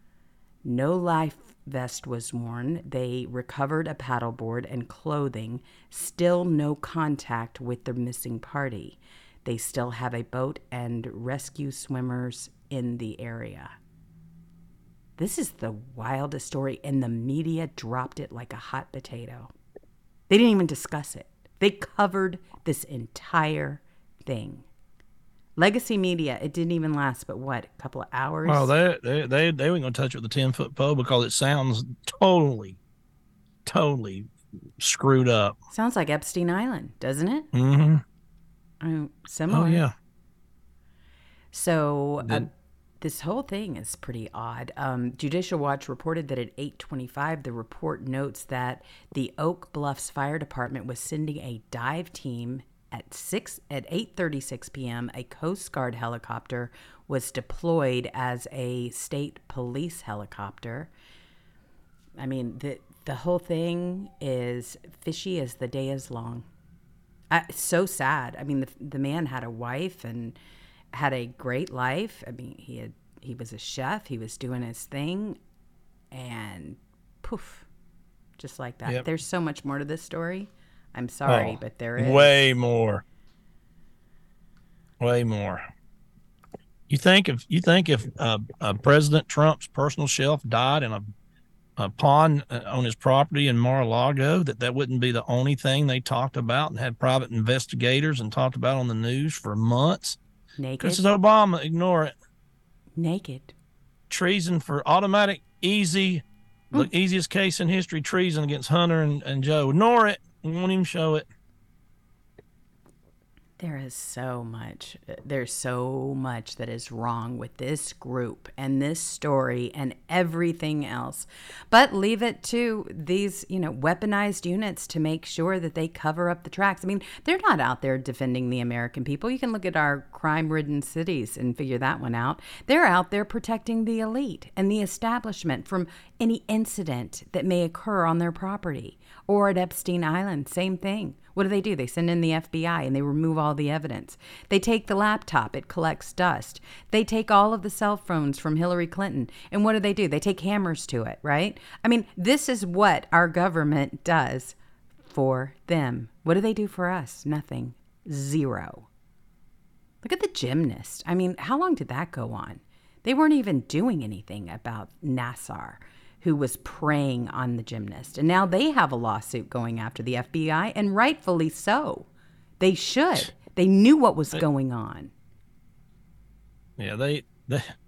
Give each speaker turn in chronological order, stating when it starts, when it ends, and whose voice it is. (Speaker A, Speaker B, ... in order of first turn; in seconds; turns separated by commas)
Speaker A: 0.6-13.7, Speaker A: 15.2-19.5, Speaker A: 20.3-24.7, Speaker A: 25.6-28.7, Speaker B: 28.4-32.8, Speaker B: 33.6-35.6, Speaker A: 35.7-37.5, Speaker B: 37.5-38.0, Speaker A: 38.8-39.8, Speaker B: 39.5-39.9, Speaker A: 41.5-42.5, Speaker B: 42.2-42.5, Speaker A: 43.0-60.9, Speaker A: 62.2-66.5, Speaker A: 67.3-70.4, Speaker A: 70.9-75.4, Speaker A: 76.1-77.7, Speaker A: 78.4-82.4, Speaker B: 81.3-83.0, Speaker B: 85.0-85.7, Speaker B: 86.9-91.1, Speaker B: 91.8-100.2, Speaker A: 100.6-101.0, Speaker B: 100.8-102.1, Speaker A: 103.0-103.5, Speaker B: 104.1-111.3, Speaker A: 113.6-154.6, Speaker A: 155.1-158.9, Speaker A: 160.0-172.1, Speaker A: 172.6-175.1, Speaker B: 176.8-177.7